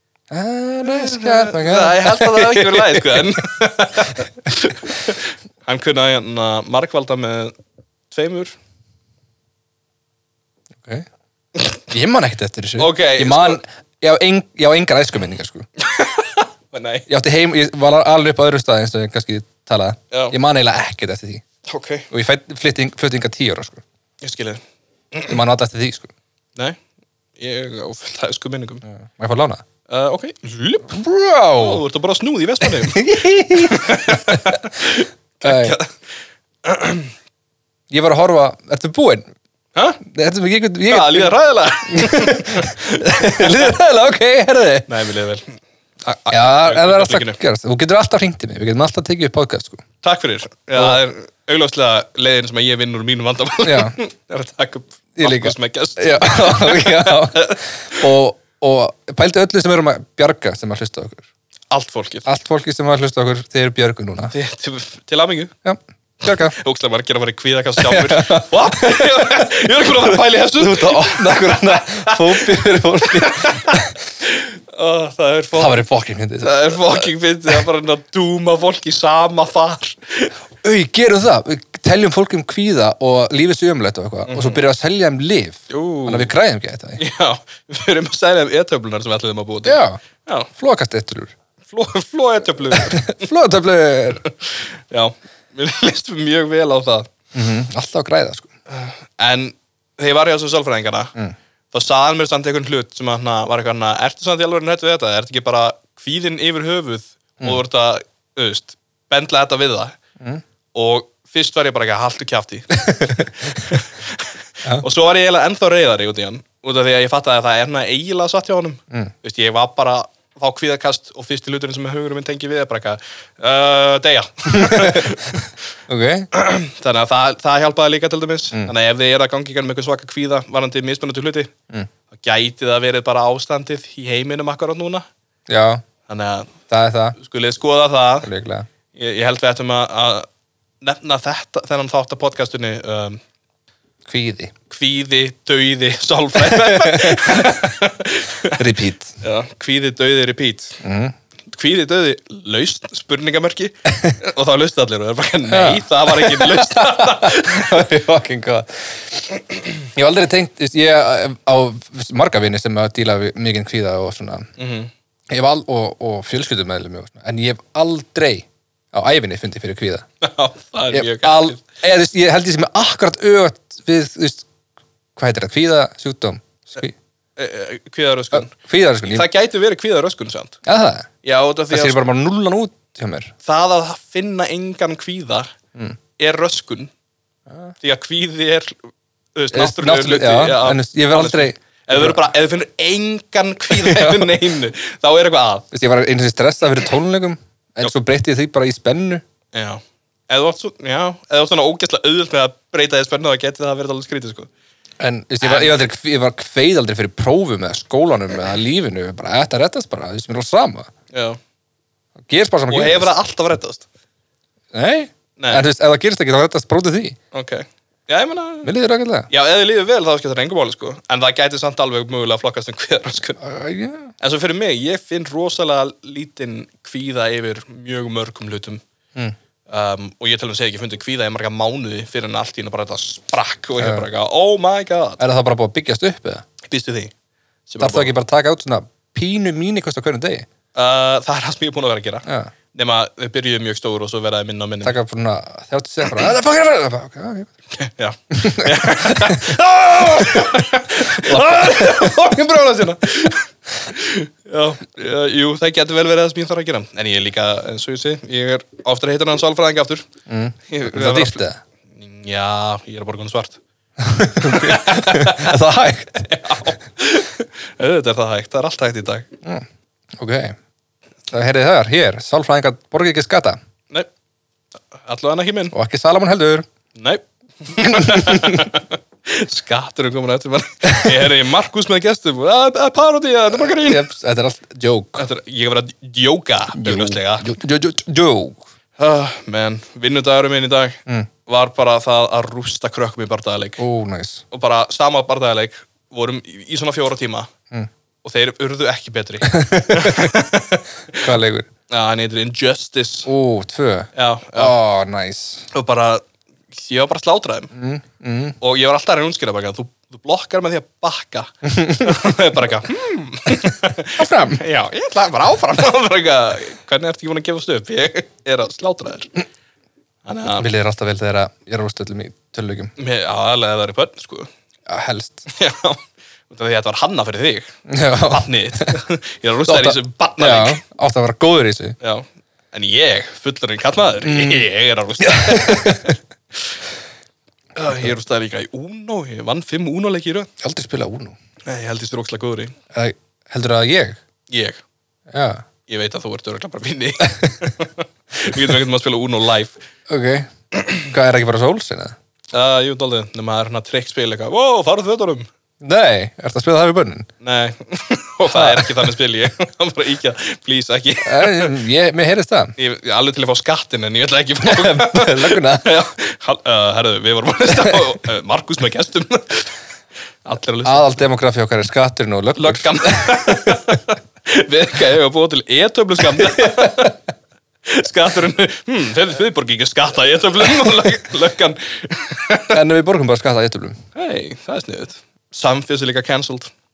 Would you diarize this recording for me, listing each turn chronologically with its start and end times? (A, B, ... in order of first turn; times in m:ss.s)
0:00.3-0:03.4 A
0:00.8-0:07.6 B
0:08.1-0:08.6 B
0:11.9-0:15.7 A
0:12.8-0:13.6 B
0:15.8-0:17.1 B
0:17.1-0:21.4 A
0:20.1-0:20.4 B
0:21.7-0:22.1 B
0:22.1-0:23.8 A
0:24.2-0:24.6 B
0:25.3-0:26.1 A
0:27.4-0:28.8 B
0:28.9-0:29.6 A
0:29.9-0:31.0 B
0:30.9-0:31.8 A
0:31.6-0:36.0 B
0:32.6-0:34.6 A
0:35.4-0:35.8 A
0:36.6-0:37.1 B
0:37.9-0:39.3 A
0:39.8-0:40.0 B
0:40.0-0:41.4 A
0:40.9-0:43.7 B
0:41.9-0:44.9 A
0:44.9-0:47.4 B
0:46.3-0:49.8 A
0:50.0-0:58.0 B
0:50.8-0:51.0 A
0:53.6-0:54.0 A
0:55.2-1:01.3 A
1:01.7-1:02.3 B
1:02.3-1:04.3 A
1:04.3-1:05.5 B
1:05.6-1:06.6 A
1:06.3-1:15.8 B
1:07.8-1:09.1 A
1:10.1-1:14.0 A
1:15.6-1:17.1 A
1:16.4-1:20.4 B
1:20.6-1:27.0 A
1:24.3-1:24.6 B
1:25.7-1:26.3 B
1:27.0-1:30.5 B
1:29.6-1:30.0 A
1:30.5-1:31.3 A
1:31.7-1:33.2 B
1:32.7-1:34.2 A
1:34.3-1:37.1 B
1:37.3-1:38.5 A
1:38.7-1:41.2 B
1:41.7-1:50.0 B
1:50.7-2:05.5 B
1:52.9-1:53.8 A
2:04.5-2:05.2 A
2:05.9-2:06.3 A
2:06.3-2:11.5 B
2:12.1-2:15.1 B
2:15.5-2:15.8 A
2:16.1-2:16.5 B
2:16.7-2:17.2 A
2:17.2-2:18.3 B
2:18.2-2:18.7 A
2:18.9-2:20.3 B
2:20.8-2:23.2 B
2:24.1-2:24.5 A
2:24.7-2:28.6 B
2:26.4-2:27.6 A
2:28.6-2:29.2 A
2:29.2-2:30.8 B
2:30.8-2:31.1 A
2:31.5-2:37.8 B
2:35.5-2:39.2 A
2:39.9-2:44.5 A
2:44.6-2:44.9 B
2:45.3-2:50.1 A
2:50.2-2:51.6 B
2:50.9-2:54.5 A
2:55.2-2:57.0 A
2:57.4-2:58.5 B
2:58.3-2:59.3 A
2:59.1-3:00.6 B
3:00.6-3:01.1 A
3:01.2-3:02.0 B
3:01.7-3:03.3 A
3:03.4-3:05.5 B
3:06.2-3:06.9 B
3:07.8-3:08.8 B
3:09.4-3:15.7 B
3:09.5-3:12.2 A
3:13.7-3:14.4 A
3:15.7-3:19.2 A
3:19.5-3:24.5 B
3:25.0-3:30.9 A
3:25.4-3:25.8 B
3:31.1-3:31.4 B
3:32.3-3:33.1 A
3:32.7-3:33.9 B
3:34.7-3:37.2 A
3:35.4-3:35.6 B
3:37.3-3:38.7 B
3:38.6-3:39.3 A
3:39.3-3:43.4 B
3:43.4-3:44.1 A
3:44.2-3:48.8 B
3:49.7-3:55.2 B
3:53.8-3:54.1 A
3:55.2-3:56.4 A
3:56.7-3:57.1 B
3:57.7-3:58.1 B
3:57.8-4:00.5 A
4:00.8-4:05.0 B
4:02.3-4:02.5 A
4:04.8-4:07.5 A
4:07.8-4:20.1 B
4:08.3-4:10.5 A
4:11.1-4:12.2 A
4:20.3-4:21.6 A
4:20.7-4:21.4 B
4:22.0-4:23.6 B
4:24.0-4:26.3 A
4:24.4-4:25.6 B
4:26.2-4:29.3 B
4:30.2-4:30.6 A
4:31.3-4:33.6 A
4:35.0-4:35.7 B
4:35.7-4:36.7 A
4:37.0-4:44.1 B
4:37.8-4:38.6 A
4:43.6-4:45.2 A
4:45.2-4:47.5 B
4:46.7-4:48.6 A
4:49.0-4:53.8 B
4:53.8-4:54.4 A
4:54.5-4:57.5 B
4:58.2-5:01.3 B
4:59.4-5:00.4 A
5:01.2-5:01.7 A
5:01.9-5:03.3 B
5:03.3-5:05.7 A
5:04.2-5:04.8 B
5:05.7-5:07.7 B
5:07.7-5:08.6 A
5:08.6-5:19.3 B
5:11.7-5:12.3 A
5:14.2-5:14.6 A
5:20.3-5:20.7 B
5:20.5-5:22.9 A
5:23.0-5:24.5 B
5:24.9-5:25.5 A
5:25.5-5:30.8 B
5:27.9-5:28.9 A
5:29.7-5:32.0 A
5:32.0-5:36.8 B
5:34.2-5:34.7 A
5:35.2-5:36.2 A
5:37.8-5:40.5 B
5:40.6-5:41.4 A
5:41.7-5:42.8 B
5:42.9-5:44.2 A
5:44.5-5:44.8 B
5:45.3-5:45.6 A
5:45.9-5:49.8 B
5:47.3-5:47.5 A
5:50.1-5:50.5 A
5:50.7-5:51.1 B
5:51.0-5:52.1 A
5:52.5-5:55.5 B
5:55.8-5:57.3 A
5:57.4-6:01.8 B
5:58.5-5:59.1 A
6:01.2-6:02.7 A
6:02.8-6:09.7 B
6:04.6-6:05.9 A
6:10.4-6:11.1 B
6:10.8-6:13.8 A
6:12.6-6:17.2 B
6:16.4-6:16.9 A
6:17.9-6:22.8 B
6:22.7-6:24.0 A
6:24.2-6:26.7 B